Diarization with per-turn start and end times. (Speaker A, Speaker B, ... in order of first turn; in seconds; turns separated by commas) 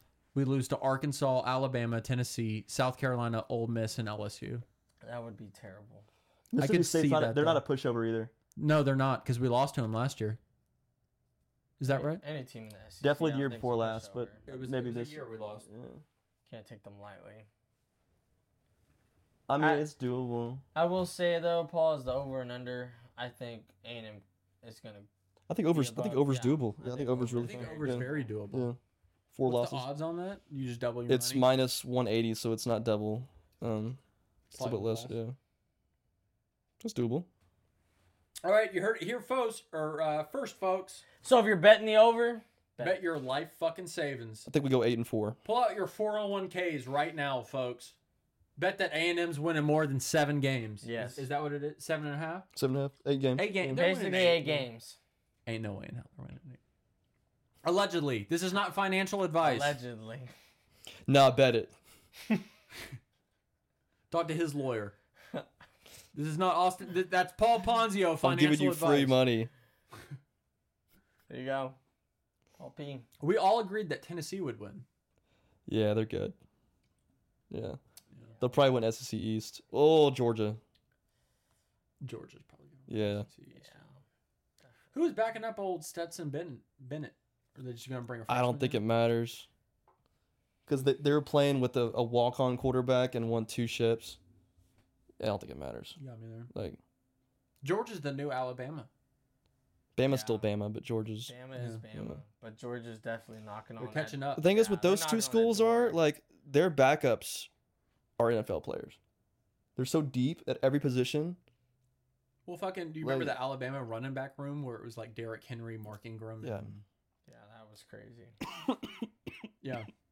Speaker A: 0.3-4.6, Speaker B: 5.0-6.0, Speaker C: 6.5-8.3, Speaker A: 6.6-7.6, Speaker A: 8.6-10.4, Speaker A: 11.8-12.2, Speaker B: 11.9-14.4, Speaker C: 13.0-16.0, Speaker A: 14.4-15.7, Speaker B: 16.5-17.5, Speaker C: 19.5-20.6, Speaker B: 19.6-19.9, Speaker B: 20.7-25.1, Speaker C: 25.5-28.8, Speaker B: 25.7-28.3, Speaker A: 27.4-28.7, Speaker C: 29.3-29.9, Speaker A: 29.4-31.5, Speaker C: 31.1-34.0, Speaker A: 34.5-35.2, Speaker C: 34.5-35.4, Speaker C: 36.8-37.3, Speaker A: 38.4-41.0, Speaker B: 41.2-43.0, Speaker A: 42.8-44.5, Speaker C: 44.5-45.4, Speaker A: 45.4-48.0, Speaker A: 48.6-52.5, Speaker B: 50.8-51.3, Speaker C: 52.5-53.8, Speaker A: 53.4-54.6, Speaker B: 53.7-55.0, Speaker A: 55.5-56.6, Speaker A: 57.6-59.8, Speaker B: 59.4-60.3, Speaker C: 61.1-61.7, Speaker A: 64.1-65.0, Speaker A: 66.1-69.2, Speaker C: 68.2-69.5, Speaker B: 71.3-71.8, Speaker B: 72.6-73.1, Speaker A: 73.2-74.8, Speaker C: 75.7-76.3, Speaker C: 77.5-77.8, Speaker C: 78.4-80.6, Speaker A: 82.0-83.9, Speaker C: 82.9-83.3, Speaker B: 83.5-83.9, Speaker A: 84.9-88.8, Speaker C: 88.3-89.5, Speaker C: 90.7-94.2, Speaker C: 95.2-96.0, Speaker A: 96.0-96.5, Speaker C: 96.5-96.8, Speaker A: 97.6-98.9, Speaker C: 100.0-101.3, Speaker B: 100.1-100.5, Speaker B: 101.3-106.0, Speaker A: 101.6-101.8, Speaker C: 101.9-102.2, Speaker A: 103.8-104.5, Speaker C: 104.4-107.5, Speaker C: 108.2-109.0, Speaker C: 109.8-111.4, Speaker A: 112.5-116.8, Speaker C: 113.0-113.4, Speaker C: 116.4-116.7, Speaker B: 117.3-118.4, Speaker C: 118.6-119.0, Speaker A: 119.6-119.9